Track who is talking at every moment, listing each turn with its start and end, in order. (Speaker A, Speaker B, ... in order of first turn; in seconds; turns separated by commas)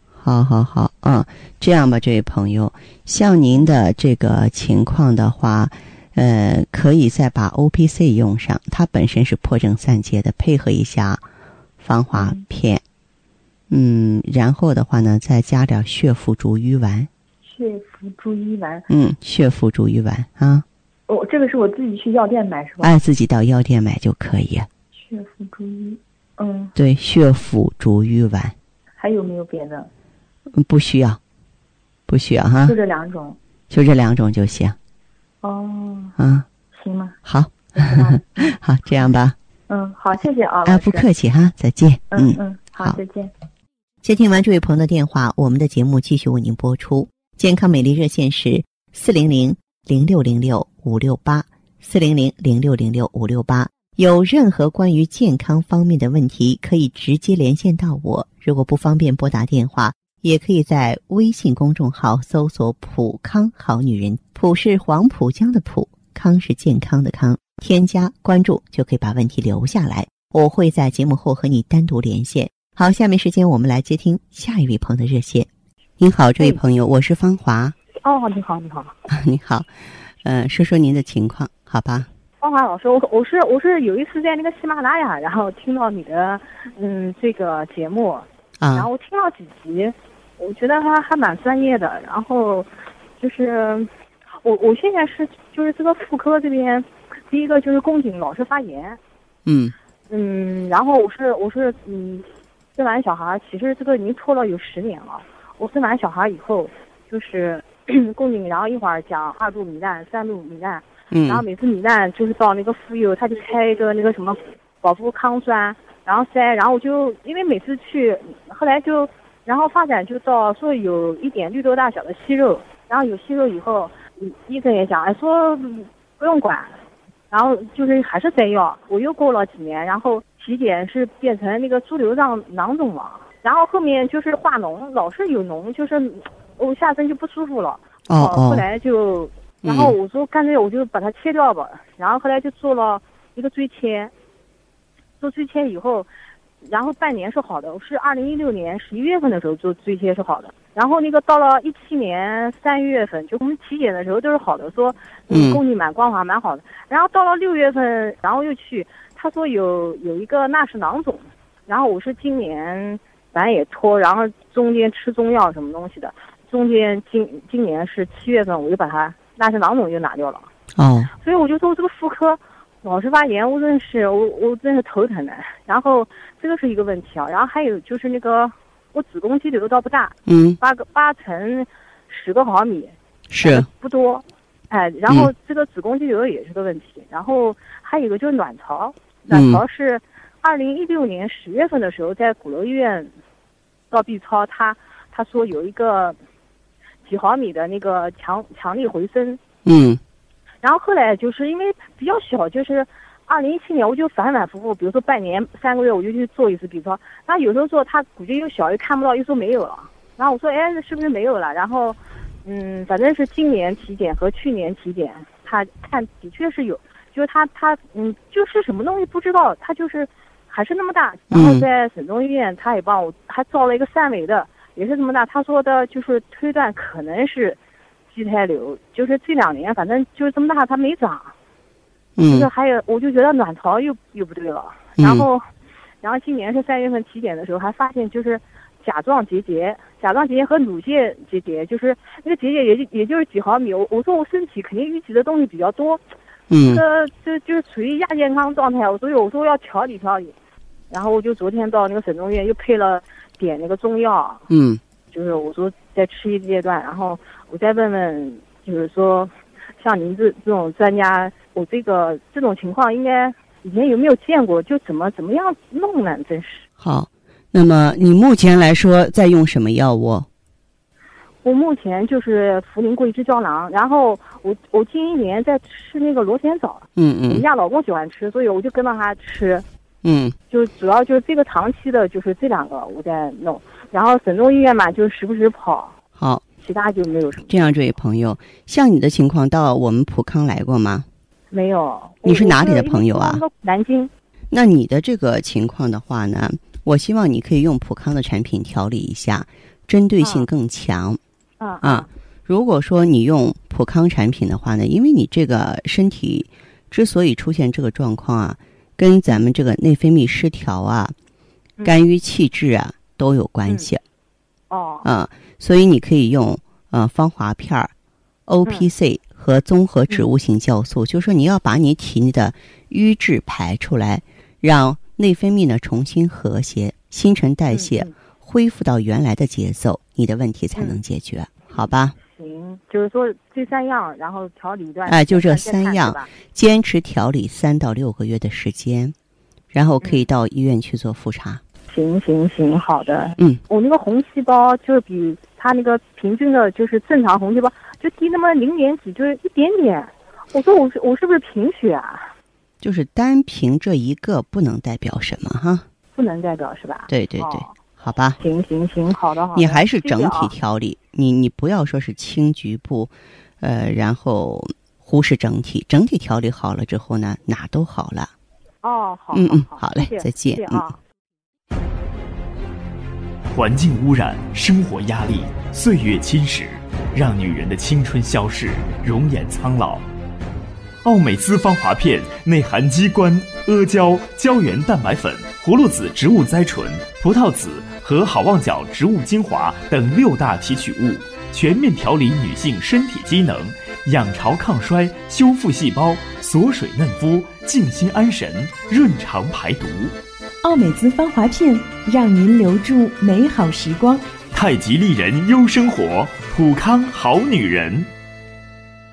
Speaker A: 0.2-11.2, Speaker A: 11.8-12.8, Speaker B: 12.1-12.5, Speaker A: 13.7-17.1, Speaker B: 17.4-18.9, Speaker A: 18.9-20.6, Speaker B: 21.1-22.9, Speaker A: 22.8-24.7, Speaker B: 25.0-26.8, Speaker A: 26.8-28.5, Speaker B: 29.0-29.9, Speaker A: 30.6-31.2, Speaker A: 32.1-32.7, Speaker B: 32.6-33.4, Speaker A: 33.7-34.8, Speaker B: 35.4-36.2, Speaker A: 36.2-36.4, Speaker B: 36.8-37.2, Speaker A: 37.3-39.4, Speaker B: 37.7-38.5, Speaker B: 39.7-41.1, Speaker A: 40.7-43.0, Speaker B: 42.1-43.3, Speaker A: 44.0-75.5, Speaker A: 76.0-77.8, Speaker C: 78.0-79.0, Speaker A: 79.1-79.7, Speaker A: 80.2-82.1, Speaker C: 82.4-99.0, Speaker A: 88.6-88.9, Speaker A: 99.5-99.7, Speaker C: 100.1-126.8, Speaker A: 111.1-111.5, Speaker C: 127.3-144.1, Speaker A: 138.1-138.7, Speaker A: 139.7-139.9, Speaker C: 145.2-146.1, Speaker C: 146.6-170.5, Speaker A: 155.3-155.6, Speaker A: 170.8-171.1, Speaker C: 171.2-193.1, Speaker A: 180.3-180.6, Speaker A: 183.3-183.7, Speaker A: 189.3-189.6, Speaker C: 193.9-196.2, Speaker C: 197.1-199.4, Speaker A: 199.7-200.0, Speaker C: 200.6-227.6, Speaker A: 221.3-221.7, Speaker C: 228.1-231.3, Speaker A: 232.2-232.5, Speaker C: 232.3-235.4, Speaker A: 235.0-235.3, Speaker C: 236.0-246.0, Speaker A: 246.5-246.8, Speaker C: 246.6-250.3, Speaker C: 250.9-254.5, Speaker A: 254.5-254.8, Speaker C: 255.1-266.7, Speaker A: 266.8-270.3, Speaker C: 271.4-279.7, Speaker A: 277.0-277.4, Speaker A: 280.0-280.3, Speaker C: 280.5-285.9, Speaker C: 286.6-287.5, Speaker A: 287.5-291.1, Speaker C: 291.5-294.1, Speaker A: 292.2-293.4, Speaker A: 294.5-301.2, Speaker C: 300.2-300.5, Speaker C: 301.6-302.1, Speaker A: 301.8-311.1, Speaker A: 311.8-314.0, Speaker C: 314.7-315.1, Speaker A: 315.0-317.9, Speaker A: 318.5-332.1, Speaker C: 318.6-318.9, Speaker C: 327.7-328.1, Speaker C: 332.2-336.3, Speaker A: 335.1-339.1, Speaker A: 339.7-341.6, Speaker C: 340.0-340.3, Speaker C: 341.9-352.3, Speaker A: 352.8-355.8, Speaker C: 356.1-357.8, Speaker A: 357.1-358.4, Speaker C: 358.4-360.5, Speaker A: 359.6-368.3, Speaker C: 368.8-371.0, Speaker A: 369.3-370.9, Speaker D: 373.5-380.1, Speaker D: 381.0-400.1, Speaker E: 400.6-404.2, Speaker D: 404.5-408.1